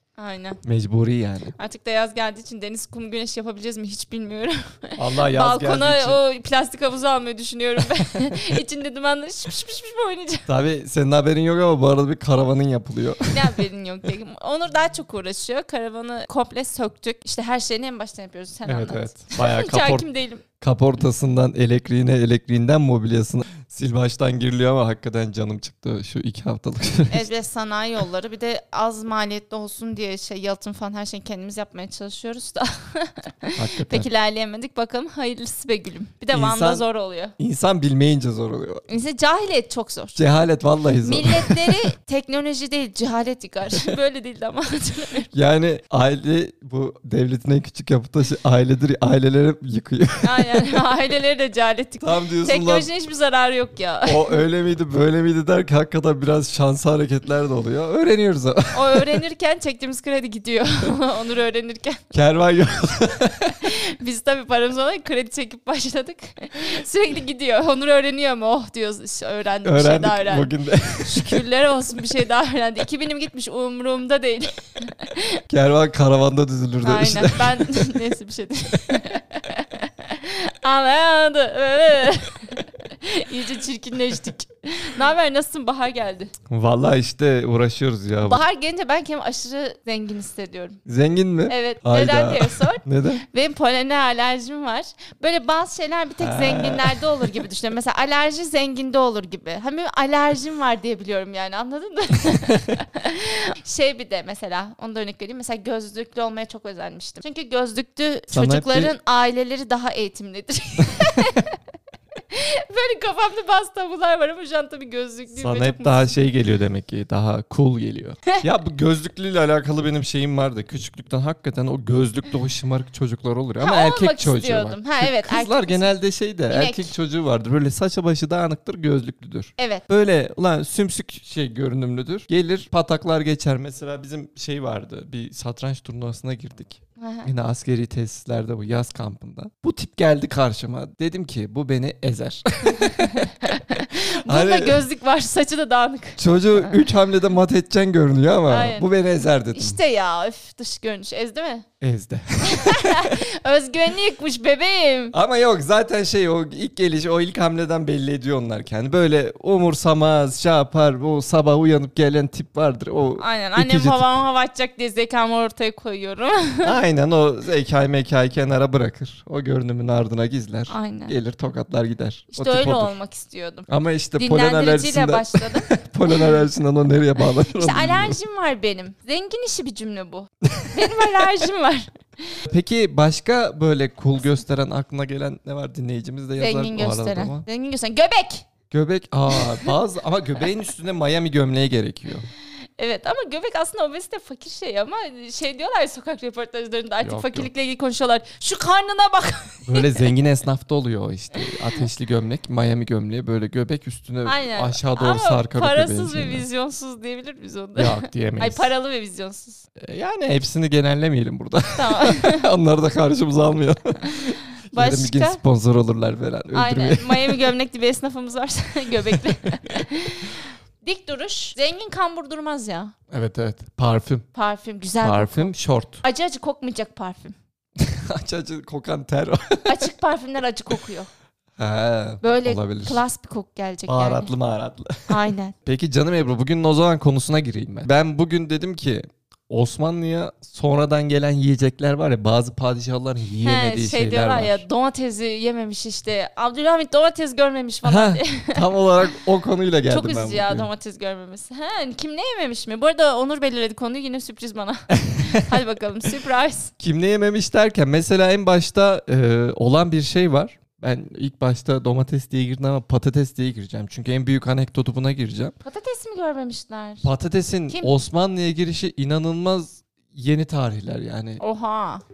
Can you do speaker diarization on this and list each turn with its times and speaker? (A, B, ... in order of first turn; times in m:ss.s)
0:00.2-0:00.6 A
0:00.6-0:01.6 B
0:01.6-0:10.5 A
0:05.0-0:06.2 B
0:10.5-0:13.6 B
0:13.3-0:20.4 A
0:18.7-0:20.1 B
0:20.6-0:27.3 B
0:27.1-0:37.3 A
0:33.6-0:34.1 B
0:36.3-0:36.8 B
0:37.4-0:38.8 B
0:38.9-0:40.2 A
0:40.2-0:41.8 B
0:41.0-0:45.3 A
0:45.3-0:50.5 B
0:50.2-0:54.4 A
0:52.0-0:52.9 B
0:54.1-0:59.2 B
0:58.7-1:02.0 A
1:02.1-1:03.5 B
1:03.5-1:15.4 A
1:09.6-1:11.4 B
1:15.5-1:18.0 B
1:16.8-1:26.3 A
1:26.5-1:28.4 B
1:28.2-1:30.8 A
1:30.8-1:33.2 B
1:31.5-1:51.6 A
1:36.2-1:37.2 B
1:48.3-1:48.9 B
1:52.3-1:56.2 A
1:55.3-2:23.3 B
2:03.6-2:05.9 A
2:06.5-2:06.9 A
2:09.6-2:09.8 A
2:17.0-2:17.3 A
2:22.9-2:26.8 A
2:24.2-2:24.8 B
2:26.2-2:29.8 B
2:28.5-2:28.9 A
2:29.5-2:31.6 A
2:31.8-2:33.2 B
2:32.5-2:35.1 A
2:35.1-2:44.0 B
2:43.2-2:46.8 A
2:46.6-2:52.9 B
2:50.7-2:51.2 A
2:52.3-2:56.4 A
2:53.7-2:58.2 B
2:57.4-3:02.4 A
3:00.5-3:01.3 B
3:02.4-3:07.4 B
3:06.4-3:08.5 A
3:08.7-3:12.3 B
3:09.3-3:09.8 A
3:12.8-3:20.1 A
3:17.0-3:17.5 B
3:19.7-3:26.4 B
3:24.2-3:29.6 A
3:27.8-3:28.7 B
3:29.8-3:37.4 B
3:31.8-3:32.5 A
3:34.7-3:35.4 A
3:36.5-3:42.9 A
3:43.1-3:44.2 B
3:44.4-3:47.4 A
3:45.0-3:46.0 B
3:47.8-3:49.9 B
3:49.7-3:51.1 A
3:51.6-3:53.0 B
3:52.2-3:54.3 A
3:53.9-4:04.6 B
3:55.1-3:55.6 A
4:03.4-4:08.6 A
4:07.8-4:10.7 B
4:09.9-4:16.7 A
4:15.0-4:15.6 B
4:16.8-4:25.5 B
4:25.6-4:27.1 A
4:27.0-4:31.4 B
4:31.4-4:32.0 A